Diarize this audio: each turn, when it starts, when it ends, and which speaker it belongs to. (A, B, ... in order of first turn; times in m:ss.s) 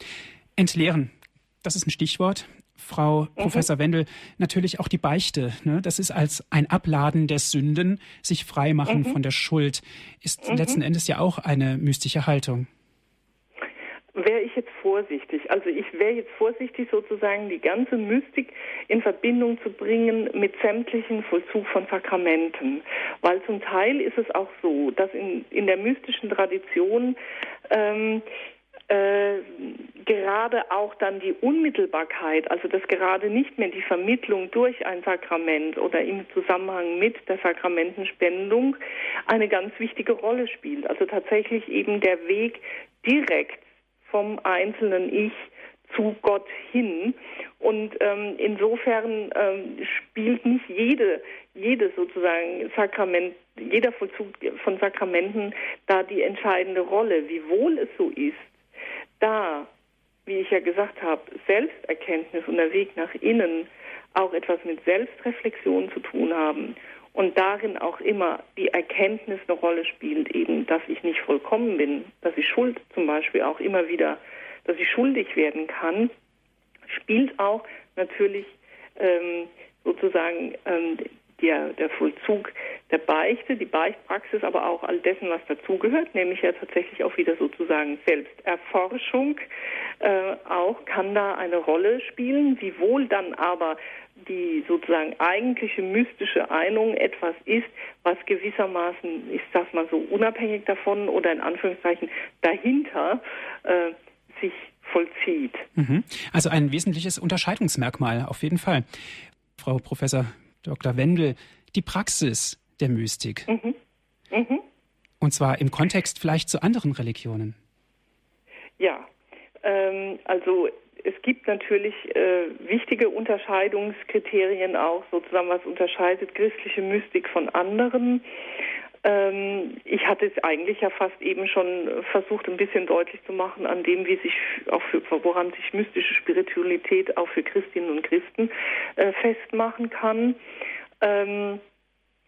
0:00.6-0:12.7 A
0:03.4-0:03.7 B
0:08.9-0:09.2 B
0:10.5-0:10.8 B
0:14.1-0:28.2 B
0:28.9-0:58.6 B
0:59.2-0:59.7 B
1:00.3-1:16.1 B
1:16.9-1:29.4 B
1:30.0-1:45.7 B
1:45.8-1:48.9 A
1:49.6-1:53.5 A
1:53.5-1:53.8 B
1:54.3-1:54.6 B
1:55.2-1:57.6 A
1:58.8-1:59.1 B
1:59.6-2:08.2 B
2:09.0-2:20.4 B
2:21.0-2:21.6 B